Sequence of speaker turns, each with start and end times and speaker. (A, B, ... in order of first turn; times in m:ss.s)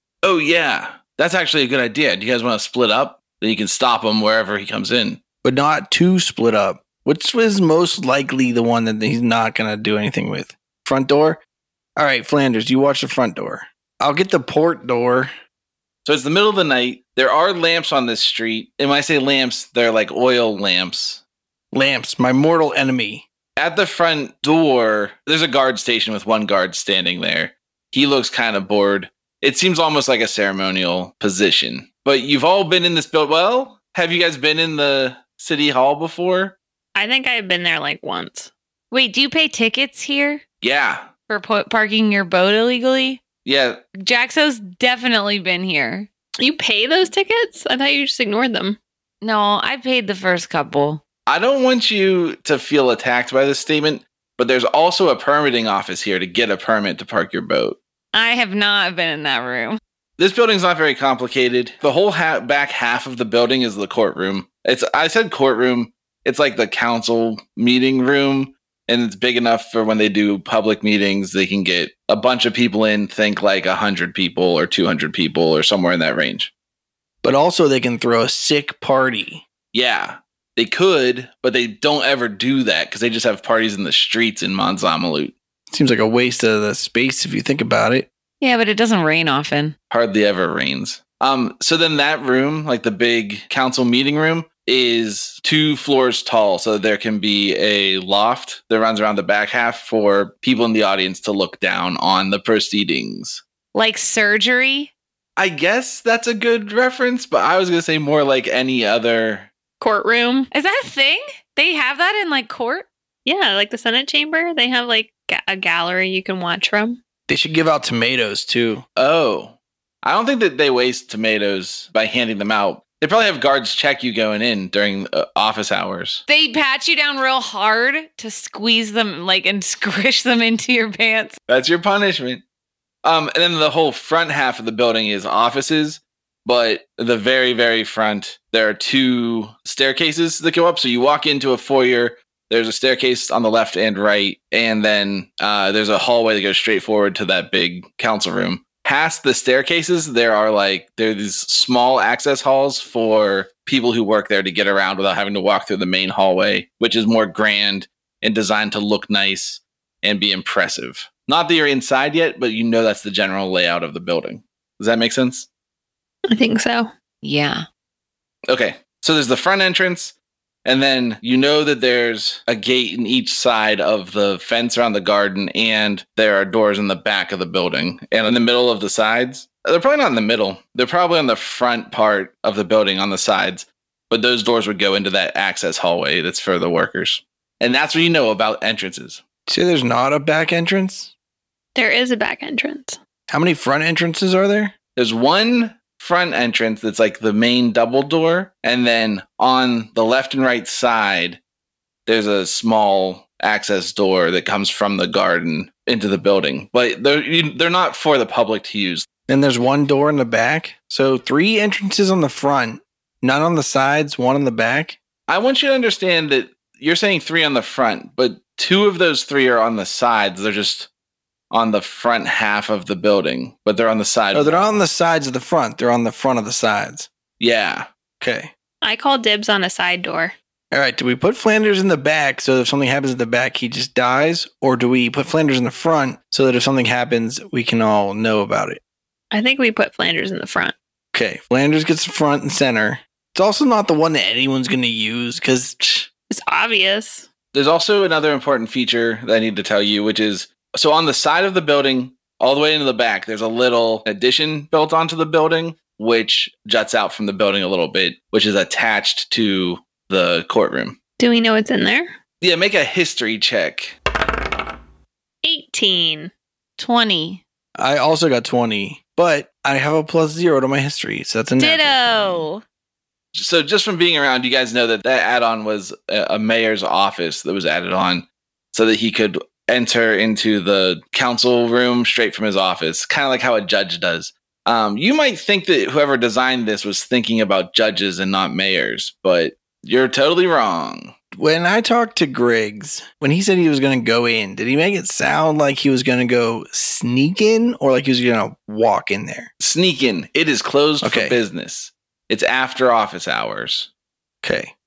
0:00.2-0:05.2 A
0:05.4-0:11.4 B
0:12.0-0:15.3 B
0:16.0-0:21.2 A
0:21.7-0:23.2 B
0:23.6-0:36.6 A
0:36.9-0:38.5 C
0:38.9-0:40.4 D
0:40.6-0:41.1 A
0:41.3-0:43.2 D
0:43.4-0:43.8 A
0:44.0-0:46.1 D
0:46.4-0:48.8 C
0:49.2-0:51.0 D
0:51.3-0:57.8 A
0:58.1-0:59.8 D
1:00.2-1:16.5 A
1:17.2-1:19.4 B
1:19.7-1:25.3 A
1:25.7-1:28.1 B
1:28.4-1:29.7 D
1:29.9-1:43.4 A
1:43.7-1:44.9 D
1:45.4-1:49.5 A
1:49.8-1:50.5 C
1:50.5-1:52.8 D
1:53.2-1:57.0 C
1:57.3-1:58.8 B
1:59.0-2:06.2 A
2:06.3-2:11.4 D
2:11.5-2:12.4 A
2:13.0-2:45.5 A
2:46.3-2:46.9 C
2:47.2-2:47.6 D
2:48.5-3:09.2 A
3:09.5-3:11.1 B
3:11.7-3:13.0 C
3:13.3-3:14.7 B
3:15.0-3:21.4 A
3:22.0-3:29.1 A
3:29.3-3:35.0 B
3:35.3-3:40.9 A
3:41.5-3:44.8 A
3:44.3-3:47.1 B
3:47.4-3:47.9 A
3:48.2-3:48.5 B
3:48.8-3:50.3 C
3:50.7-3:58.8 B
3:59.3-4:00.7 C
4:01.1-4:06.1 B
4:06.3-4:07.3 C
4:07.5-4:21.0 A
4:21.2-4:22.1 C
4:22.4-4:24.0 A
4:25.4-4:26.3 C
4:26.8-4:27.4 D
4:27.8-4:32.5 B
4:31.6-4:32.6 D
4:33.3-4:51.1 A
4:51.3-4:59.5 B
4:59.6-5:03.9 A
5:01.0-5:01.4 B
5:04.4-5:04.7 B